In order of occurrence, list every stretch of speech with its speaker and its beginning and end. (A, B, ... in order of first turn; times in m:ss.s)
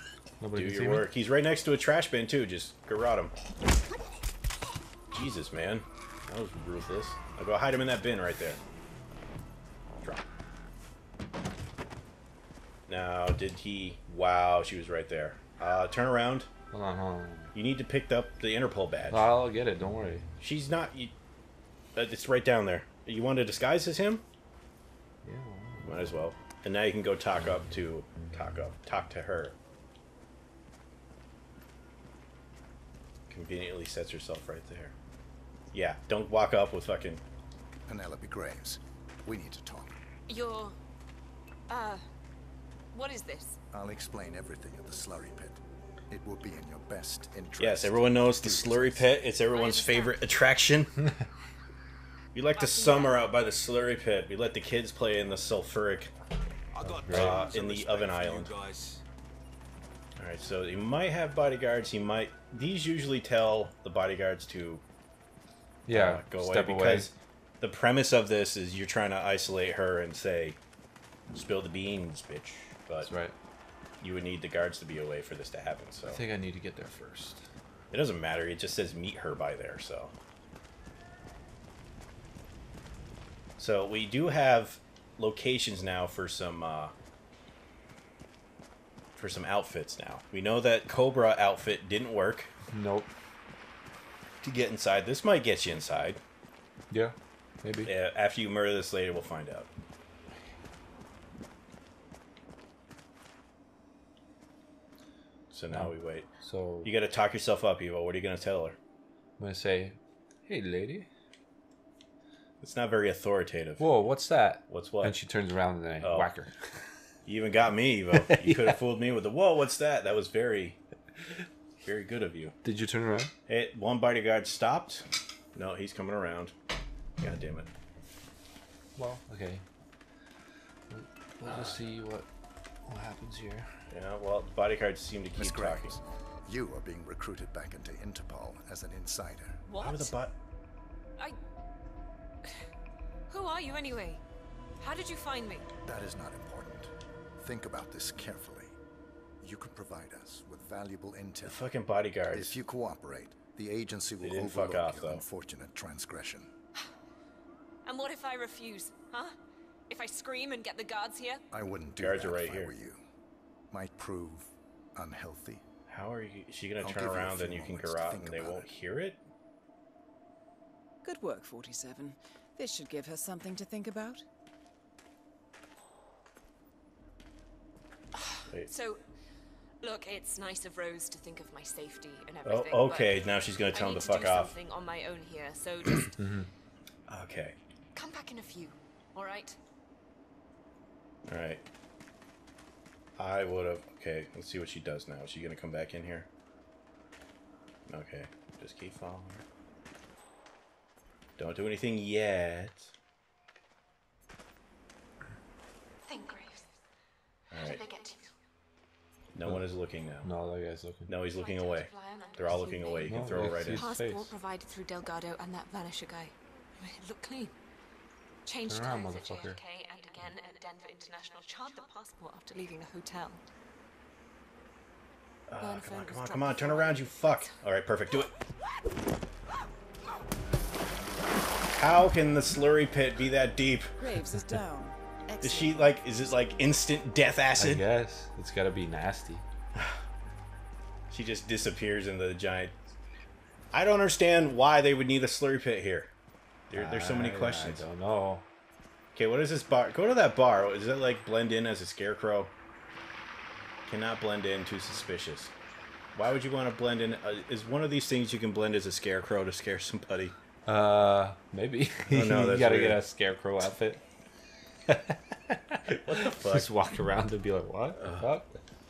0:00.4-0:01.1 A
0:00.5-0:03.3 B
0:05.1-0:08.6 B
0:12.9-0:16.5 B
0:16.7-0:17.5 A
0:17.6-0:19.3 B
0:19.1-0:20.3 A
0:20.4-0:21.1 B
0:22.0-0:24.2 B
0:25.2-0:26.2 A
0:25.8-0:29.6 B
0:33.3-0:35.0 B
0:35.7-0:37.2 B
0:37.9-0:40.0 C
0:40.3-0:40.8 D
0:41.7-0:42.0 D
0:42.9-0:43.6 D
0:43.7-0:49.1 C
0:47.6-0:50.9 B
0:49.5-0:50.2 D
0:52.3-0:56.1 B
0:52.5-0:53.3 D
0:56.7-0:59.0 E
0:56.8-0:57.5 A
0:57.1-0:58.5 B
1:00.2-1:04.8 B
1:05.9-1:07.1 A
1:05.9-1:10.6 B
1:11.3-1:13.1 B
1:13.0-1:13.3 A
1:14.0-1:16.2 B
1:16.0-1:17.4 A
1:17.9-1:20.1 B
1:23.6-1:26.9 B
1:29.2-1:32.5 B
1:32.7-1:33.1 A
1:34.4-1:36.2 B
1:36.9-1:37.9 A
1:37.8-1:39.7 B
1:45.5-1:46.3 B
1:45.7-1:46.9 A
1:46.8-1:48.8 B
1:49.4-1:51.1 A
1:52.6-1:54.0 B
1:53.8-1:56.5 A
1:54.7-1:55.2 B
1:56.0-1:56.3 B
1:57.3-2:00.8 B
1:58.2-1:58.8 A
2:01.8-2:02.5 B
2:02.6-2:03.3 A
2:03.5-2:06.6 B
2:07.2-2:07.7 B
2:09.0-2:09.7 A
2:10.9-2:12.3 A
2:12.8-2:13.7 A
2:13.9-2:16.0 B
2:15.4-2:19.6 C
2:19.7-2:20.1 D
2:19.8-2:20.3 B
2:23.3-2:24.2 D
2:24.8-2:25.7 D
2:25.8-2:28.8 C
2:29.4-2:31.6 C
2:31.4-2:32.6 B
2:32.3-2:36.5 C
2:34.2-2:35.2 B
2:37.8-2:39.4 D
2:39.9-2:41.4 D
2:41.5-2:43.0 C
2:42.0-2:42.7 B
2:43.7-2:45.7 C
2:45.9-2:49.2 B
2:46.8-2:48.7 C
2:51.0-2:54.2 F
2:58.6-2:59.0 D
2:59.8-3:06.1 D
3:02.4-3:04.5 B
3:06.2-3:06.5 A
3:07.1-3:07.6 B
3:07.9-3:09.6 D
3:11.3-3:11.6 B
3:13.2-3:16.3 B
3:17.9-3:19.4 B
3:21.4-3:22.9 B
3:26.0-3:26.7 D
3:27.5-3:27.8 B
3:27.6-3:28.3 D
3:29.3-3:30.3 B
3:30.2-3:31.1 A
3:31.1-3:33.9 B
3:31.3-3:37.5 D
3:33.1-3:34.4 A
3:38.5-3:43.4 D
3:38.7-3:39.6 A
3:45.5-3:48.3 B
3:45.6-3:47.5 D
3:51.7-3:53.9 B
3:54.0-3:56.9 F
3:55.4-3:57.8 B
3:57.6-3:59.4 A
4:01.1-4:02.8 B
4:03.7-4:06.1 B
4:06.7-4:07.8 B
4:06.7-4:08.5 A
4:09.1-4:12.5 B
4:13.9-4:15.5 B
4:16.2-4:20.4 B
4:20.7-4:24.0 A
4:22.1-4:23.0 B
4:24.9-4:28.6 A
4:26.0-4:26.7 B
4:28.0-4:28.2 B